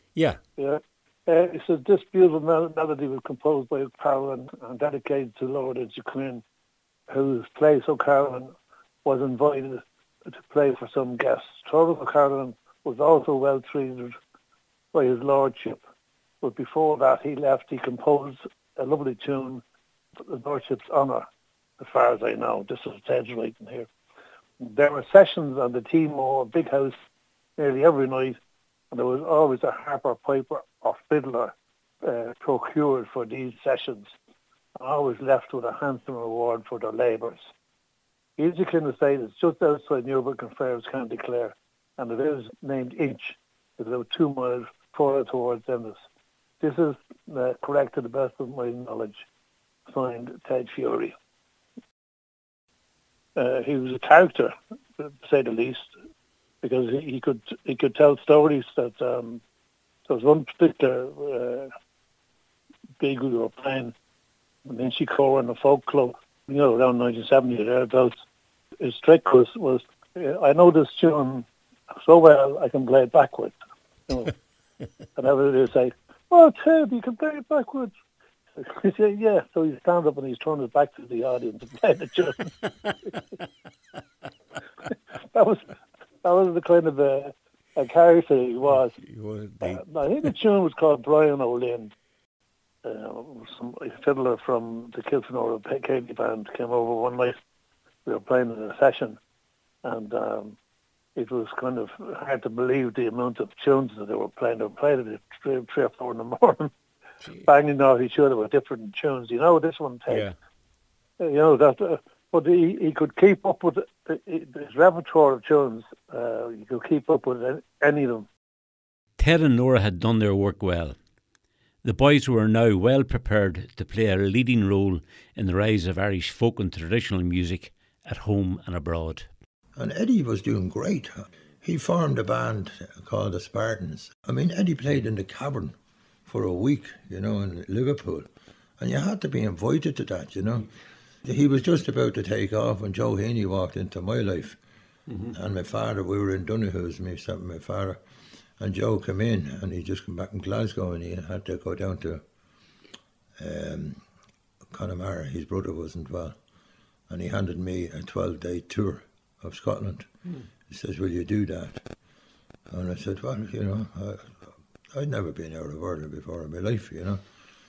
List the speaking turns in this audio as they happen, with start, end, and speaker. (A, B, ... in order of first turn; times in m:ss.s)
0:00.1-0:00.4 A
0:00.6-0:06.4 B
0:07.1-0:08.5 B
0:09.0-0:14.1 B
0:14.9-0:15.8 B
0:16.4-0:19.6 B
0:20.2-0:21.2 B
0:21.8-0:23.9 B
0:24.6-0:26.9 B
0:27.6-0:28.4 B
0:28.9-0:34.1 B
0:34.8-0:37.4 B
0:38.4-0:46.0 B
0:46.6-0:49.2 B
0:49.9-0:51.1 B
0:53.4-0:55.9 B
0:56.6-0:59.4 B
1:00.1-1:01.7 B
1:03.0-1:03.9 B
1:04.7-1:08.2 B
1:08.8-1:13.6 B
1:14.1-1:14.3 B
1:15.2-1:17.9 B
1:18.6-1:22.5 B
1:25.3-1:25.6 B
1:26.2-1:29.0 B
1:29.0-1:29.8 A
1:29.6-1:31.9 B
1:32.8-1:37.3 B
1:38.0-1:39.2 B
1:39.8-1:40.6 B
1:41.2-1:46.7 B
1:47.2-1:47.5 A
1:47.4-1:50.3 B
1:50.1-1:50.3 A
1:51.2-1:58.3 B
1:59.2-2:01.0 A
2:01.8-2:09.3 A
2:09.8-2:20.7 C
2:21.2-2:24.6 C
2:25.1-2:25.4 A
2:25.3-2:28.0 C
2:28.6-2:32.2 C
2:33.4-2:34.0 C
2:34.7-2:36.4 C
2:37.1-2:40.1 C
2:40.7-2:41.9 C
2:42.7-2:47.2 C